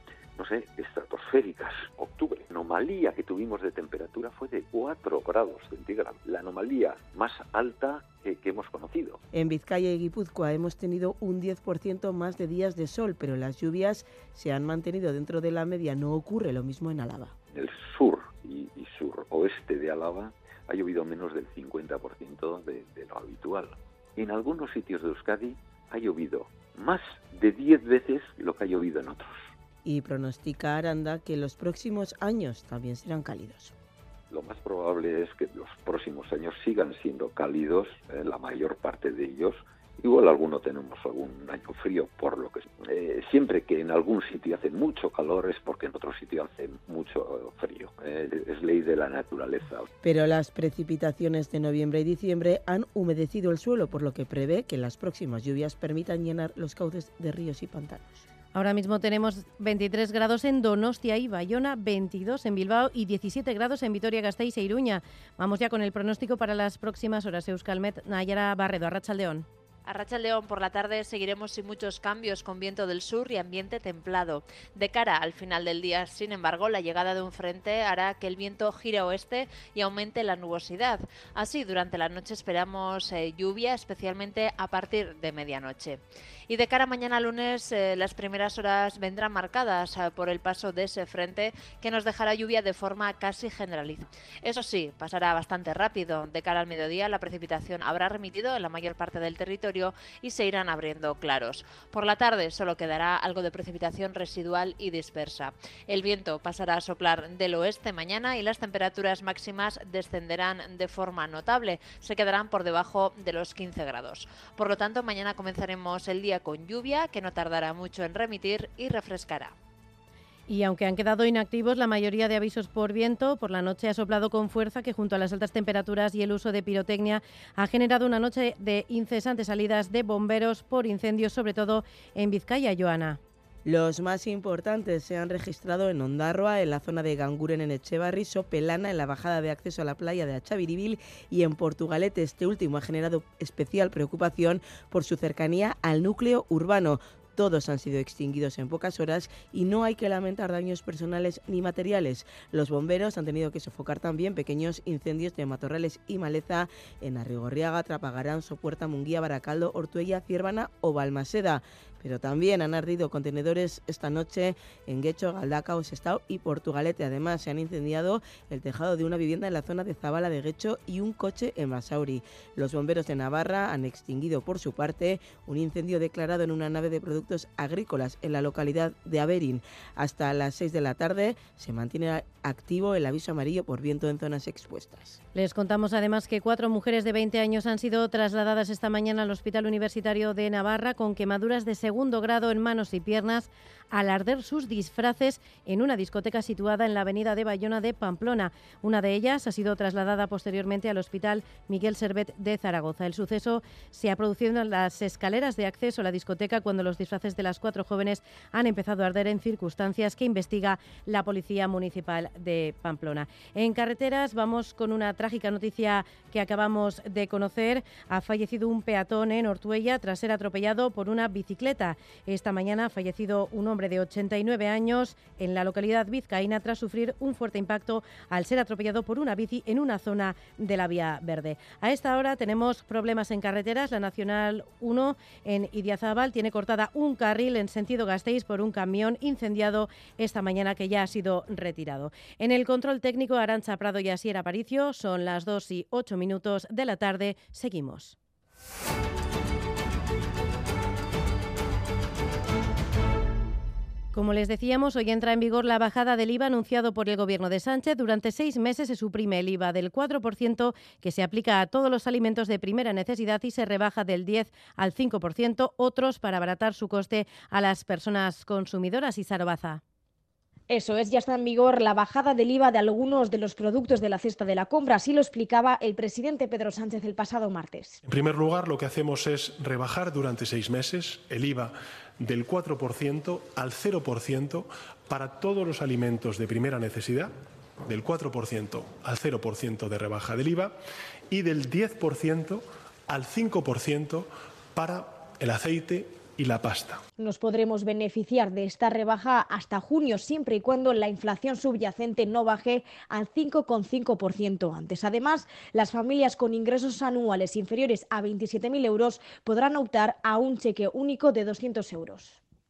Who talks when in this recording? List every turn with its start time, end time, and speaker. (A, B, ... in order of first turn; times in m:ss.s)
0:00.4-0:09.2 A
0:09.3-0:17.3 B
0:17.5-0:29.4 A
0:29.8-0:33.7 B
0:34.3-0:49.9 A
0:50.0-0:58.2 B
0:58.5-1:09.4 C
1:09.8-1:59.5 D
2:00.5-2:13.2 C
2:13.6-3:05.2 B
3:05.3-4:08.2 C
4:14.1-4:29.8 C
4:30.7-4:38.0 E
4:38.0-4:47.3 F
4:47.8-4:50.8 F
4:51.3-4:57.0 F
4:57.2-5:12.4 E